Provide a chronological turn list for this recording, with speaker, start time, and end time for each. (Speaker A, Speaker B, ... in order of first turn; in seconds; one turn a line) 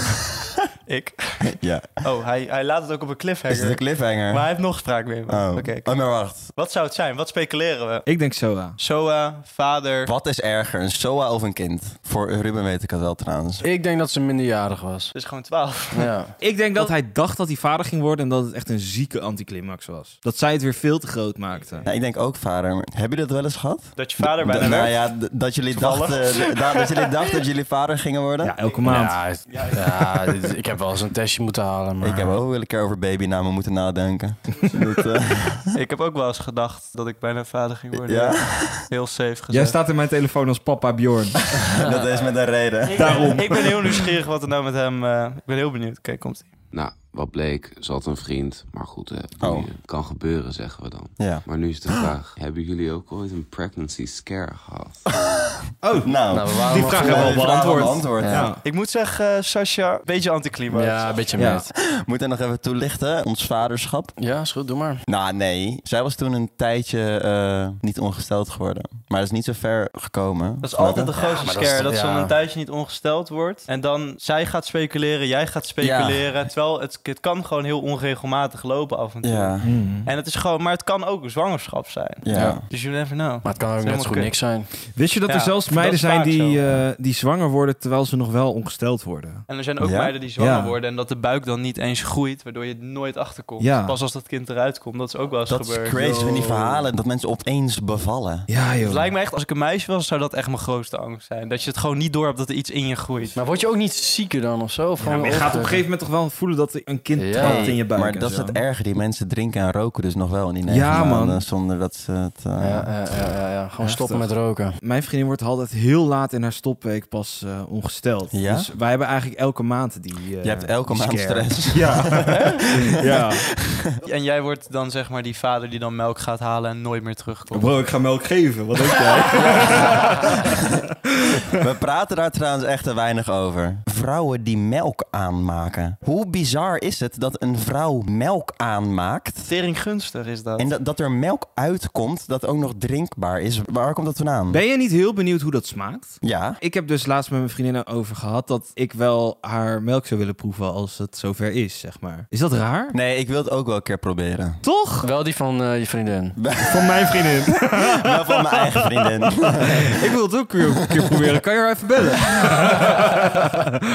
Speaker A: 0.9-8.1
Speaker B: 1.5-2.0
Speaker B: 3.5-4.6
Speaker B: 5.3-6.5
Speaker C: 8.1-8.8
Speaker A: 8.8-10.1
Speaker B: 10.1-13.7
Speaker D: 13.6-15.1
Speaker A: 15.1-16.1
Speaker D: 15.9-16.4
Speaker C: 16.4-21.9
Speaker B: 21.9-28.6
Speaker A: 24.0-27.1
Speaker C: 28.4-29.3
Speaker D: 28.9-32.4
Speaker A: 29.5-29.8
Speaker B: 32.0-35.7
Speaker A: 35.7-39.8
Speaker B: 37.9-38.9
Speaker C: 39.5-41.5
Speaker B: 41.8-43.7
Speaker A: 42.9-46.5
Speaker C: 43.0-43.7
Speaker E: 46.7-55.0
Speaker B: 49.4-49.7
Speaker B: 51.2-52.1
Speaker C: 55.8-58.6
Speaker B: 56.0-58.5
Speaker D: 56.3-57.4
Speaker D: 58.2-58.5
Speaker A: 58.6-61.2
Speaker D: 60.7-61.6
Speaker C: 61.4-61.7
Speaker B: 61.5-64.1
Speaker D: 64.2-65.0
Speaker B: 65.1-71.5
Speaker A: 70.6-84.3
Speaker D: 71.4-72.4
Speaker B: 75.8-76.3
Speaker B: 79.2-79.8
Speaker C: 79.6-80.1
Speaker B: 82.2-82.6
Speaker D: 82.3-82.6
Speaker D: 83.4-84.7
Speaker C: 84.9-89.5
Speaker A: 85.3-86.6
Speaker A: 89.5-96.0
Speaker B: 89.8-90.1
Speaker C: 90.4-90.7
Speaker C: 93.6-94.0
Speaker B: 95.5-98.5
Speaker C: 95.9-96.9
Speaker C: 98.5-99.1
Speaker A: 98.8-103.4
Speaker D: 103.3-105.8
Speaker C: 105.0-108.6
Speaker D: 107.2-107.7
Speaker B: 107.4-112.9
Speaker C: 110.7-111.5
Speaker D: 112.6-114.8
Speaker C: 113.8-123.5
Speaker B: 118.3-118.7
Speaker B: 120.4-123.9
Speaker A: 124.0-127.8
Speaker C: 127.5-130.5
Speaker D: 129.4-130.3
Speaker B: 131.6-139.5
Speaker A: 139.5-140.7
Speaker B: 140.6-144.6
Speaker C: 144.5-153.0
Speaker B: 146.2-146.6
Speaker B: 152.9-154.6
Speaker C: 154.6-155.1
Speaker D: 155.0-156.4
Speaker B: 156.4-159.9
Speaker C: 156.7-163.7